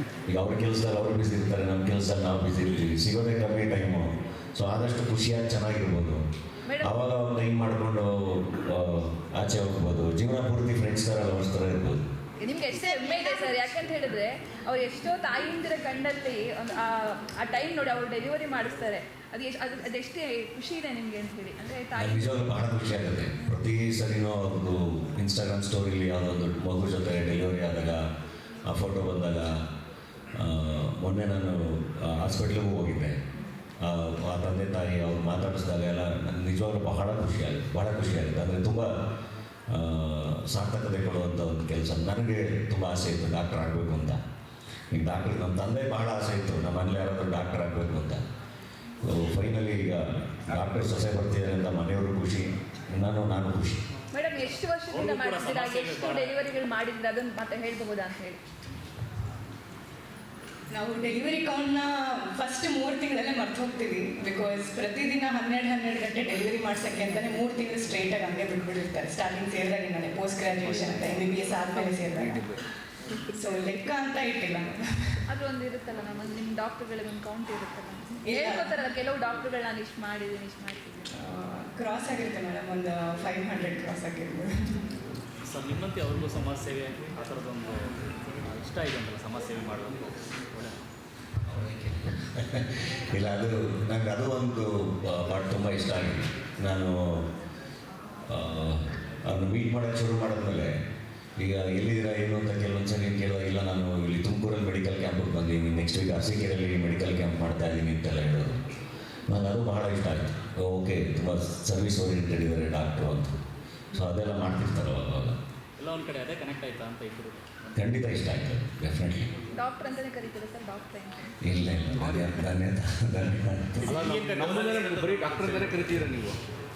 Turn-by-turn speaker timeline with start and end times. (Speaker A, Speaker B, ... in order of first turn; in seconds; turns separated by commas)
Speaker A: 0.3-6.2, Speaker B: 6.7-6.9, Speaker A: 6.8-12.1, Speaker B: 12.4-22.4, Speaker A: 21.9-28.0, Speaker A: 28.7-29.6, Speaker A: 30.3-33.2, Speaker A: 33.8-38.9, Speaker A: 39.7-44.2, Speaker A: 44.9-48.2, Speaker A: 49.0-53.8, Speaker B: 54.1-58.4, Speaker C: 54.9-56.4, Speaker D: 60.7-72.5, Speaker E: 70.6-71.0, Speaker E: 71.8-72.6, Speaker D: 73.3-75.2, Speaker B: 75.3-81.1, Speaker D: 78.2-78.7, Speaker D: 81.1-84.8, Speaker C: 85.4-90.8, Speaker A: 91.5-97.3, Speaker A: 98.3-100.7, Speaker A: 101.4-108.6, Speaker A: 109.3-113.3, Speaker A: 113.9-115.3, Speaker C: 115.8-117.6, Speaker A: 117.8-119.3, Speaker B: 119.5-121.4, Speaker A: 121.4-124.0, Speaker E: 122.0-122.3, Speaker C: 123.8-126.0, Speaker E: 123.8-126.4